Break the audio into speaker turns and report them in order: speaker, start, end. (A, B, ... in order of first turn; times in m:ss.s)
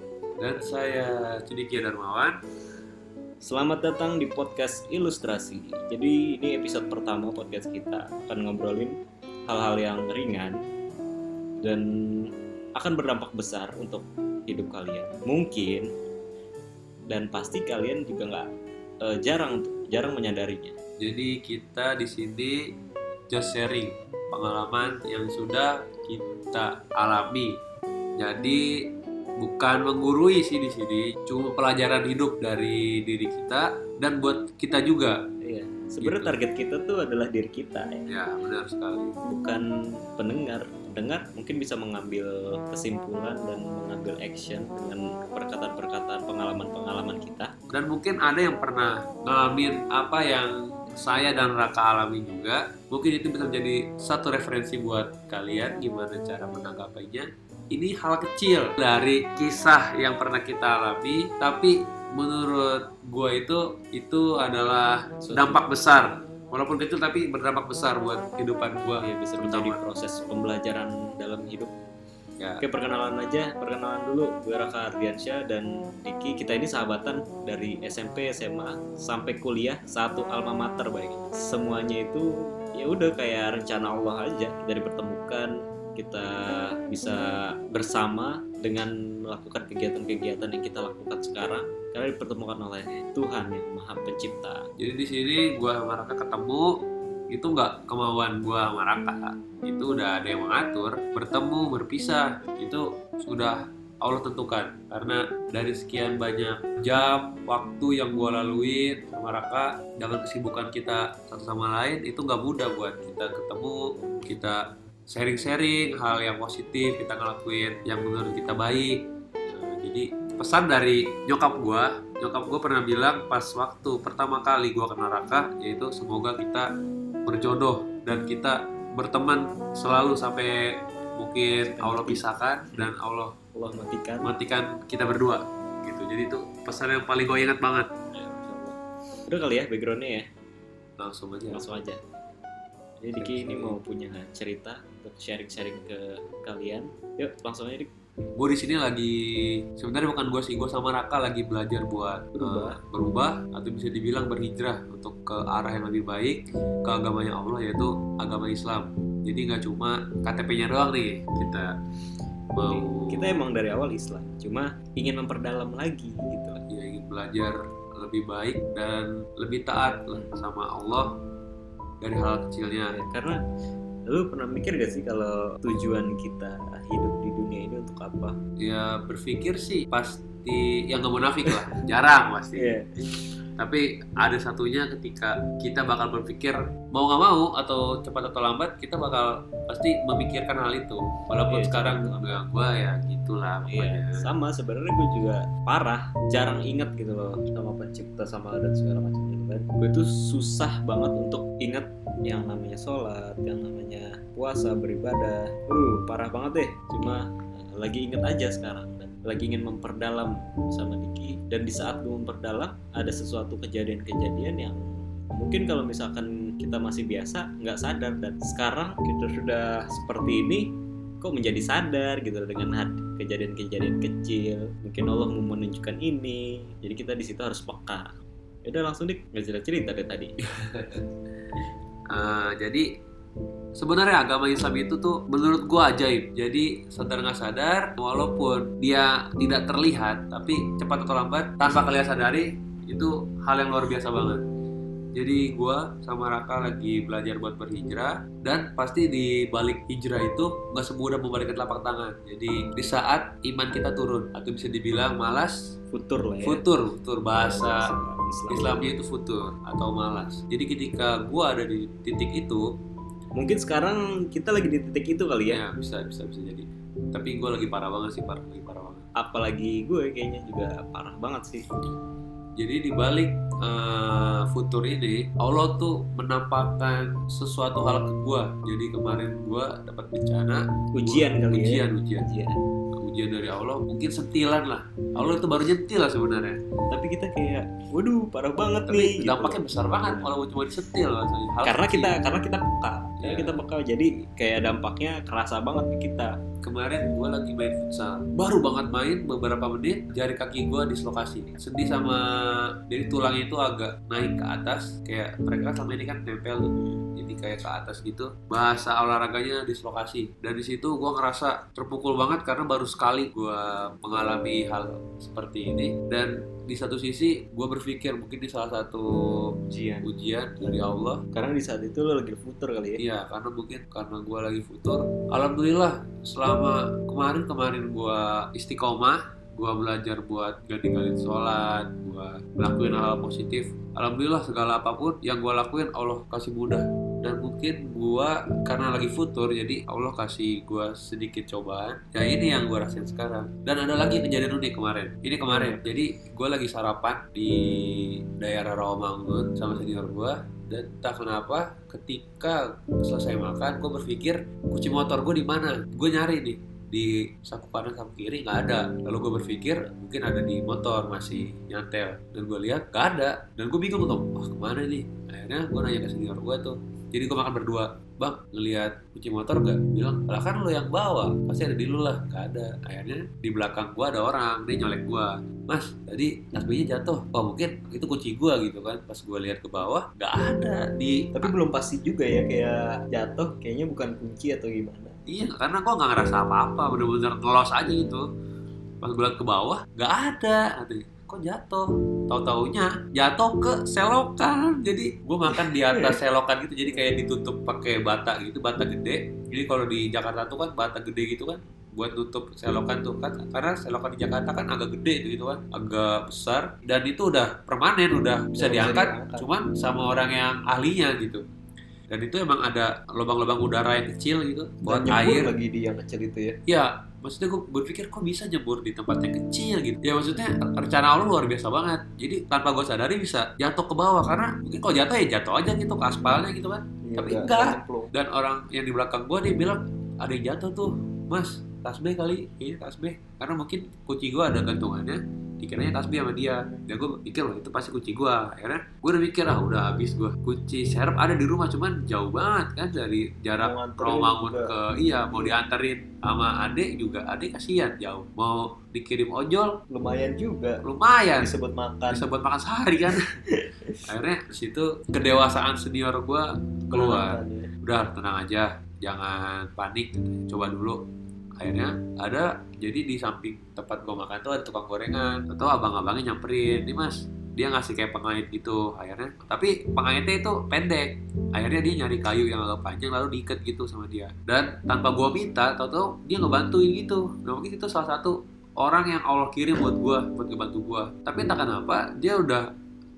0:00.4-0:02.4 A
0:03.4-0:08.9 B
0:09.5-0:10.6 B
0:12.8-0:15.9 B
0:17.1-0:18.4 B
0:19.1-0:20.7 B
0:21.0-0:22.6 A
0:23.3-0:27.5 A
0:28.2-0:28.6 A
0:29.4-0:35.2 A
0:35.5-0:38.0 B
0:36.0-0:36.3 A
0:38.1-0:39.2 A
0:39.3-0:39.7 B
0:40.2-0:47.5 B
0:47.7-1:09.8 A
1:05.2-1:05.6 B
1:09.0-1:11.7 B
1:12.6-1:26.3 B
1:26.9-1:27.2 B
1:27.7-1:34.6 B
1:34.8-1:36.7 A
1:37.3-1:59.0 A
1:59.5-2:06.7 A
2:07.3-2:10.5 A
2:11.2-2:13.4 A
2:11.6-2:12.9 B
2:13.6-2:14.3 B
2:14.2-2:17.9 A
2:18.1-2:18.8 B
2:19.3-2:20.2 B
2:21.0-2:21.6 A
2:21.5-2:22.0 B
2:23.0-2:27.9 B
2:23.2-2:23.8 A
2:28.4-2:29.1 A
2:29.8-2:41.7 A
2:32.4-2:32.8 B
2:42.5-2:43.3 A
2:42.7-2:46.6 B
2:46.7-2:51.1 A
2:52.0-2:52.9 A
2:52.9-2:53.4 B
2:54.1-2:58.4 B
2:58.6-3:02.7 A
3:02.6-3:02.9 B
3:03.6-3:14.2 A
3:11.5-3:12.4 B
3:13.7-3:34.8 B
3:35.4-3:40.6 B
3:41.2-3:48.1 B
3:48.7-3:50.3 B
3:50.4-3:51.0 A
3:52.1-3:52.9 A
3:53.8-4:04.4 A
4:05.2-4:15.6 A
4:15.9-4:16.6 B
4:16.4-4:17.8 A
4:17.4-4:19.0 B
4:18.5-4:22.6 A
4:23.4-4:25.6 B
4:25.5-4:29.0 A
4:29.2-4:31.7 B
4:32.6-4:42.3 A
4:41.0-4:42.6 B
4:43.0-4:46.6 A
4:46.9-4:50.3 B
4:48.9-4:52.1 A
4:51.6-4:56.3 B
4:53.2-4:53.6 A
4:56.6-5:02.2 A
5:02.9-5:19.1 A
5:06.8-5:07.0 B
5:19.7-5:20.1 B
5:20.0-5:21.2 A
5:21.3-5:23.0 B
5:23.0-6:21.5 A
5:45.5-5:45.9 B
6:21.4-6:25.2 B
6:25.3-6:28.2 A
6:29.0-6:51.4 A
6:35.5-6:36.2 B
6:48.5-6:49.5 B
6:52.1-6:55.5 A
6:54.8-6:56.6 B
6:56.7-7:29.7 A
7:07.0-7:08.1 B
7:23.6-7:24.7 B
7:29.9-7:30.8 B
7:30.8-7:31.5 A
7:31.4-7:32.2 B
7:32.1-7:33.2 A
7:33.5-7:33.8 B
7:34.1-7:41.0 A
7:36.9-7:37.7 B
7:41.6-8:02.6 A